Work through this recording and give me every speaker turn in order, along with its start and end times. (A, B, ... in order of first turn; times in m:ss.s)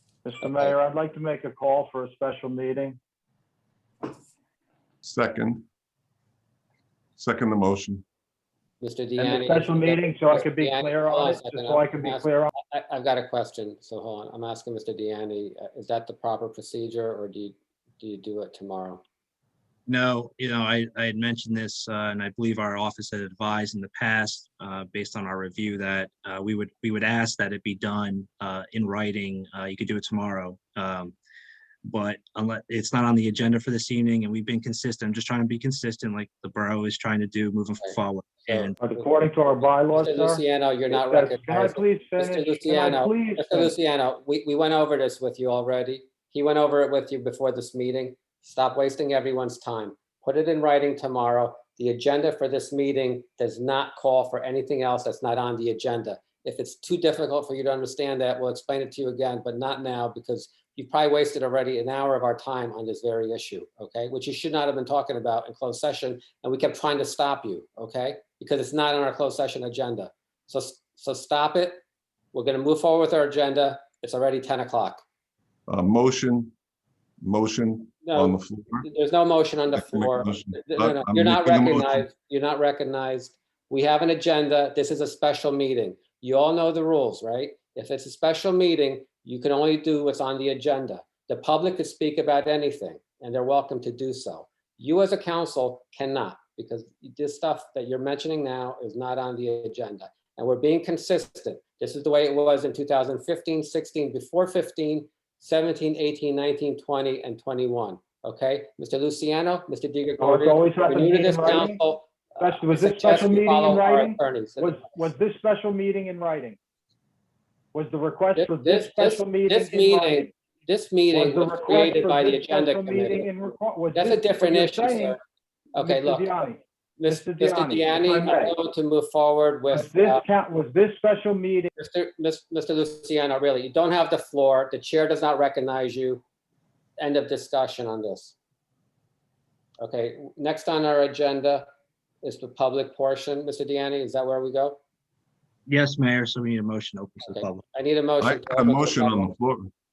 0:00.2-0:03.0 A
0:00.4-0:00.8 B
0:05.0-0:05.7 C
0:07.2-0:08.0 C
0:08.8-0:19.0 B
0:09.2-0:12.5 A
0:19.9-0:31.2 D
0:31.8-0:38.8 D
0:38.5-0:39.1 B
0:38.8-0:43.7 A
0:39.9-1:11.8 B
1:12.3-1:15.0 B
1:15.7-1:16.5 C
1:17.2-1:18.9 C
1:18.1-1:54.8 B
1:19.7-1:22.1 C
1:50.2-1:51.8 A
1:52.4-1:56.6 A
1:57.7-2:00.3 A
1:58.4-2:03.3 B
2:01.1-2:05.2 A
2:03.9-2:05.2 B
2:05.7-2:06.3 B
2:05.8-2:08.6 A
2:07.0-2:10.2 B
2:09.7-2:11.7 A
2:11.8-2:16.2 B
2:17.0-2:18.4 B
2:19.8-2:21.7 B
2:22.2-2:24.8 B
2:25.7-2:27.6 D
2:27.3-2:29.4 B
2:28.2-2:29.7 C